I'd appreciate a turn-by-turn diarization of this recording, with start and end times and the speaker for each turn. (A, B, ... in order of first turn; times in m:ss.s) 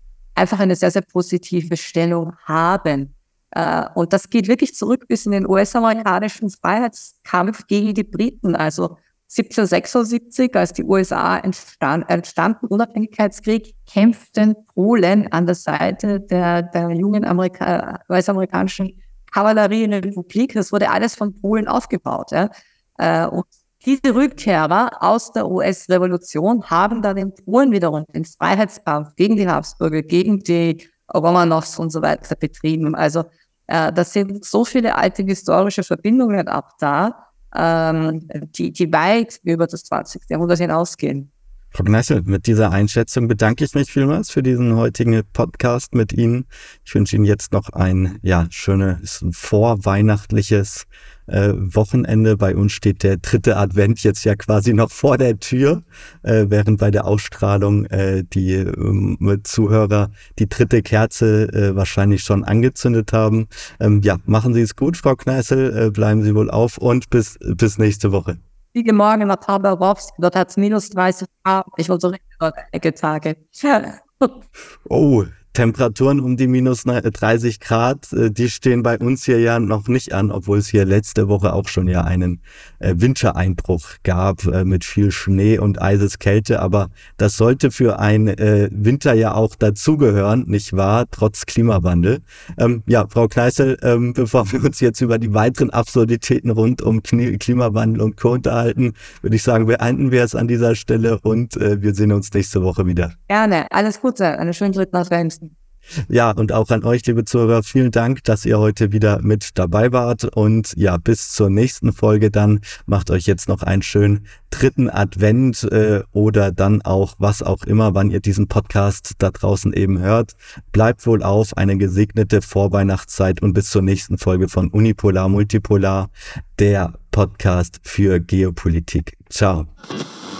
0:00.4-0:41.3 A
0:41.7-1:08.4 B
1:08.7-1:14.4 A
1:14.8-1:43.1 B
1:43.3-1:45.5 A
1:46.1-2:09.7 B